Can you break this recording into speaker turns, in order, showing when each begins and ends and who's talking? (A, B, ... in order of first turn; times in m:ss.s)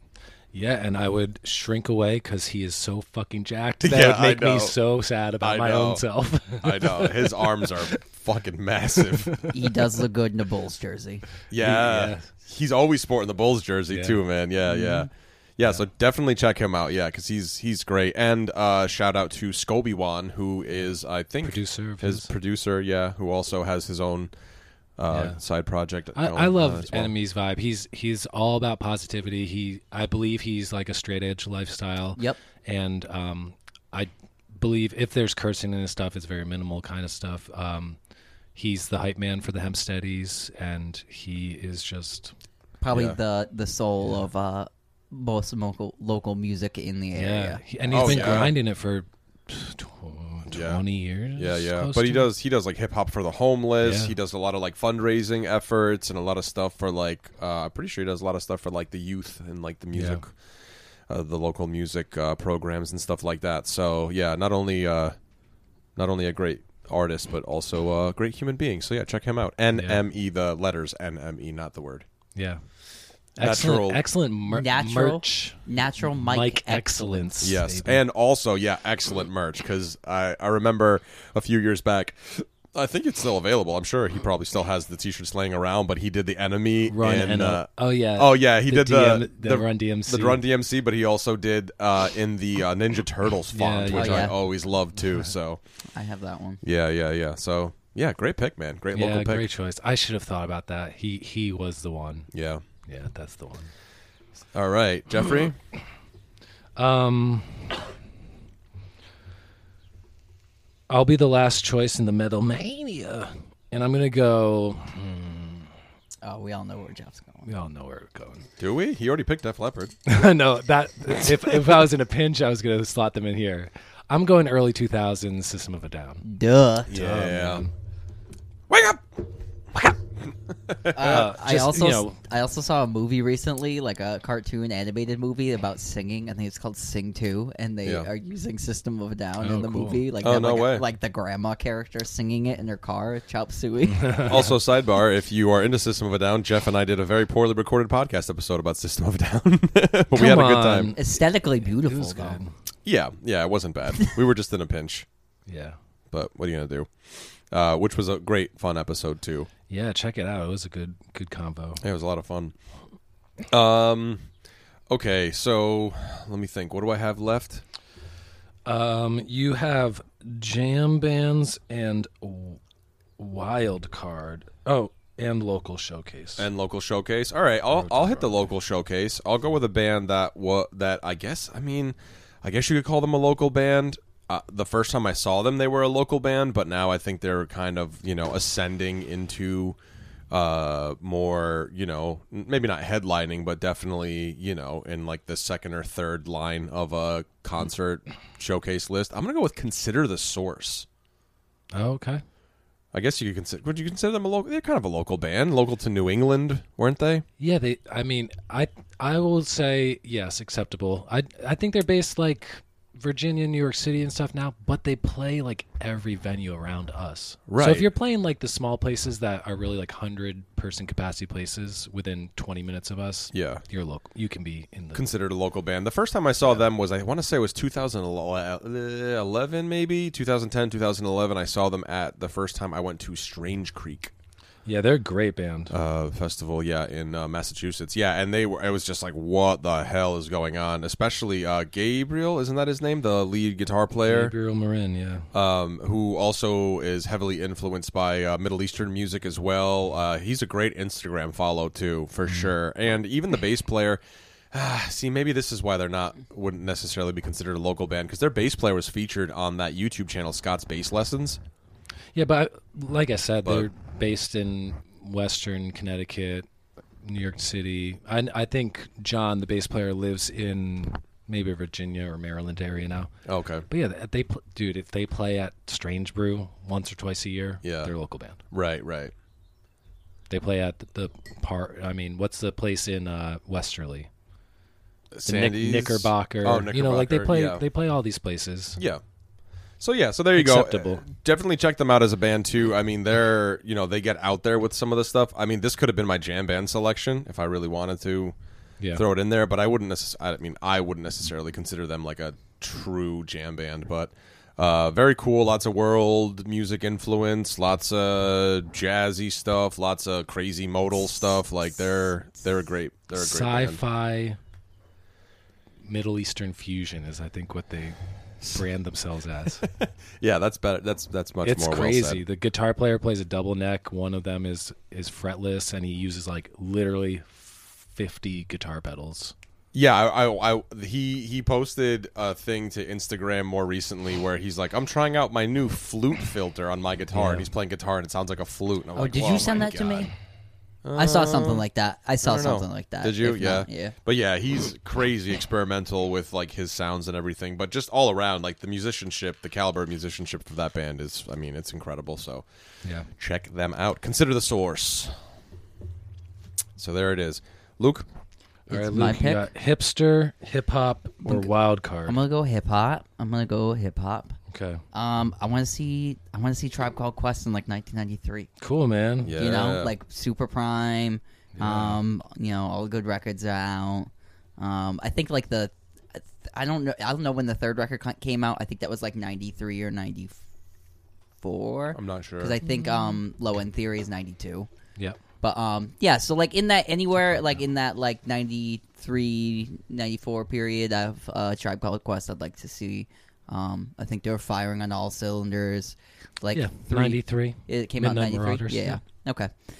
0:00.5-0:08.0 A
0:03.8-0:04.8 B
0:05.4-0:06.0 B
0:06.6-0:09.4 B
0:09.2-0:09.7 A
0:09.5-0:11.3 C
0:11.5-0:24.3 B
0:11.6-0:12.3 A
0:13.9-0:14.2 A
0:14.7-0:15.1 C
0:21.4-0:22.3 A
0:25.0-0:27.1 B
0:25.1-0:25.4 A
0:26.1-0:38.0 A
0:38.5-0:42.3 A
0:42.8-0:48.4 C
0:42.9-0:43.2 B
0:47.1-0:52.3 A
0:47.9-0:48.5 B
0:50.5-0:50.8 B
0:51.4-1:00.4 B
0:53.8-0:54.1 A
0:59.9-1:00.2 A
1:01.1-1:05.2 B
1:06.0-1:12.0 B
1:09.7-1:10.0 A
1:12.3-1:12.6 A
1:13.3-1:18.0 A
1:13.4-1:14.0 B
1:14.5-1:17.3 C
1:17.4-1:35.6 B
1:26.9-1:30.4 A
1:33.5-1:34.3 A
1:33.9-1:34.3 C
1:35.9-1:36.6 C
1:36.6-1:39.4 B
1:38.9-1:42.3 A
1:42.3-1:42.6 B
1:42.8-1:43.7 A
1:44.5-1:45.6 B
1:46.8-1:47.7 A
1:50.9-1:55.7 A
1:56.2-1:57.5 C
1:57.4-1:58.4 A
1:58.6-2:00.0 B
2:00.1-2:06.2 A
2:06.2-2:06.9 C
2:06.9-2:07.6 B
2:06.9-2:07.7 A
2:08.7-2:09.0 B
2:10.7-2:11.2 B
2:10.9-2:24.4 C
2:11.0-2:12.2 A
2:19.4-2:20.0 A
2:20.2-2:20.8 B
2:23.9-2:24.4 A
2:24.3-2:30.9 B
2:30.1-2:32.5 A
2:31.0-2:32.4 C
2:32.8-2:35.0 B
2:35.5-2:35.8 A
2:36.1-2:39.5 B
2:39.7-2:41.8 A
2:41.8-2:42.5 B
2:43.5-2:44.3 B
2:44.9-2:47.6 B
2:48.6-2:52.6 A
2:53.2-2:56.5 A
2:56.4-3:09.8 B
2:57.7-2:58.4 A
3:10.3-3:20.8 B
3:21.7-3:22.2 A
3:22.9-3:27.2 B
3:27.4-3:45.0 A
3:37.5-3:37.9 B
3:43.3-3:43.6 B
3:44.9-3:54.1 B
3:54.6-3:55.7 A
3:55.7-4:04.3 B
4:04.0-4:05.3 A
4:05.3-4:14.0 B
4:14.5-4:21.4 B
4:22.1-4:26.5 A
4:27.0-4:33.1 A
4:33.2-4:33.6 B
4:33.7-4:38.4 A
4:37.6-4:37.9 B
4:38.5-4:39.1 B
4:40.3-4:44.1 A
4:45.1-4:47.6 B
4:45.2-4:48.8 A
4:48.8-4:49.0 B
4:49.8-4:58.3 B
4:50.3-4:51.0 A
4:58.9-5:13.8 B
5:13.1-5:14.4 A
5:15.8-5:19.7 A
5:19.6-5:22.2 B
5:21.4-5:29.3 A
5:29.7-5:40.1 B
5:37.1-5:37.5 A
5:39.0-5:40.1 C
5:40.8-5:41.6 B
5:41.0-5:43.9 C
5:42.2-5:52.4 B
5:53.2-5:55.2 B
5:56.8-5:58.0 B
5:58.7-6:02.2 A
5:58.7-5:59.5 C
6:01.2-6:01.5 C
6:02.0-6:04.4 C
6:04.5-6:04.8 A
6:04.9-6:08.5 C
6:08.6-6:09.4 A
6:09.2-6:09.9 B
6:09.4-6:20.3 C
6:11.6-6:12.0 A
6:21.4-6:24.7 C
6:21.9-6:22.6 B
6:25.4-6:39.5 C
6:36.5-6:39.0 A